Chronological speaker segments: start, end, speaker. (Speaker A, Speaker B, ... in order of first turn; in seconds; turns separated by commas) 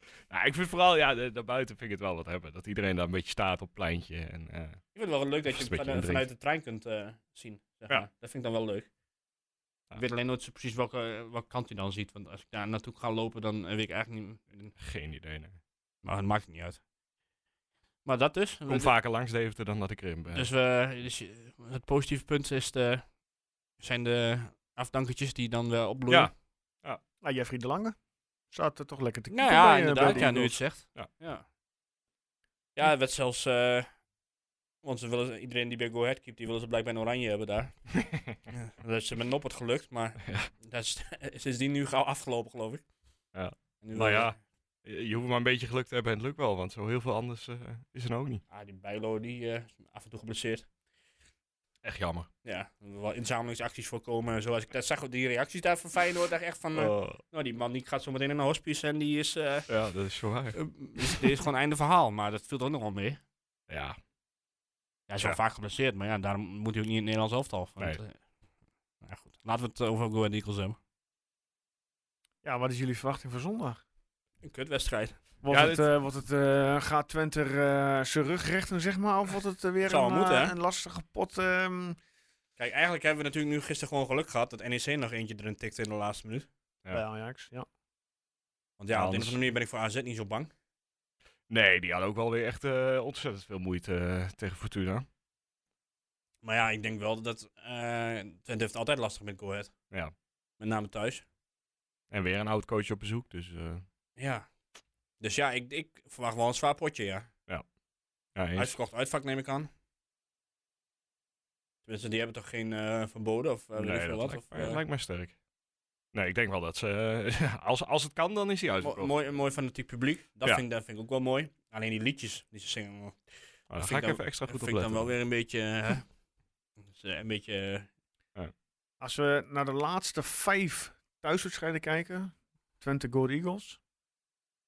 Speaker A: 0.3-4.8, Speaker B: 4.9-8.9, Speaker A: 5.5-6.3, Speaker B: 9.9-14.7, Speaker A: 14.8-15.6, Speaker B: 16.0-16.8, Speaker B: 18.0-18.9, Speaker A: 18.7-20.5, Speaker B: 20.3-23.1, Speaker B: 23.8-26.3, Speaker C: 27.2-27.9, Speaker C: 28.5-30.6, Speaker B: 29.3-31.4, Speaker A: 30.1-30.3, Speaker B: 32.8-33.9, Speaker B: 34.8-37.9, Speaker A: 38.0-38.3, Speaker B: 38.5-42.8, Speaker A: 43.3-48.4, Speaker B: 43.8-44.3, Speaker B: 48.5-50.7, Speaker A: 51.8-52.3, Speaker B: 52.4-59.7, Speaker A: 56.7-57.2, Speaker A: 59.7-60.6, Speaker B: 60.5-63.2, Speaker A: 63.7-64.0, Speaker B: 65.1-68.2, Speaker B: 69.0-70.8, Speaker C: 72.4-73.8, Speaker B: 74.4-75.2, Speaker C: 75.4-82.0, Speaker A: 75.5-75.9, Speaker B: 79.8-80.5, Speaker B: 82.6-86.5, Speaker C: 86.9-87.7, Speaker B: 88.8-90.5, Speaker A: 88.9-89.4, Speaker A: 91.5-95.1, Speaker B: 96.4-99.7, Speaker B: 100.6-101.2, Speaker A: 102.1-103.8, Speaker B: 104.2-104.5, Speaker B: 105.2-107.3, Speaker A: 108.3-108.7, Speaker B: 108.5-109.7, Speaker B: 111.8-114.8, Speaker A: 113.8-115.3, Speaker A: 116.1-119.1, Speaker B: 118.8-126.1, Speaker A: 123.7-125.1, Speaker B: 126.8-127.9, Speaker C: 129.0-133.8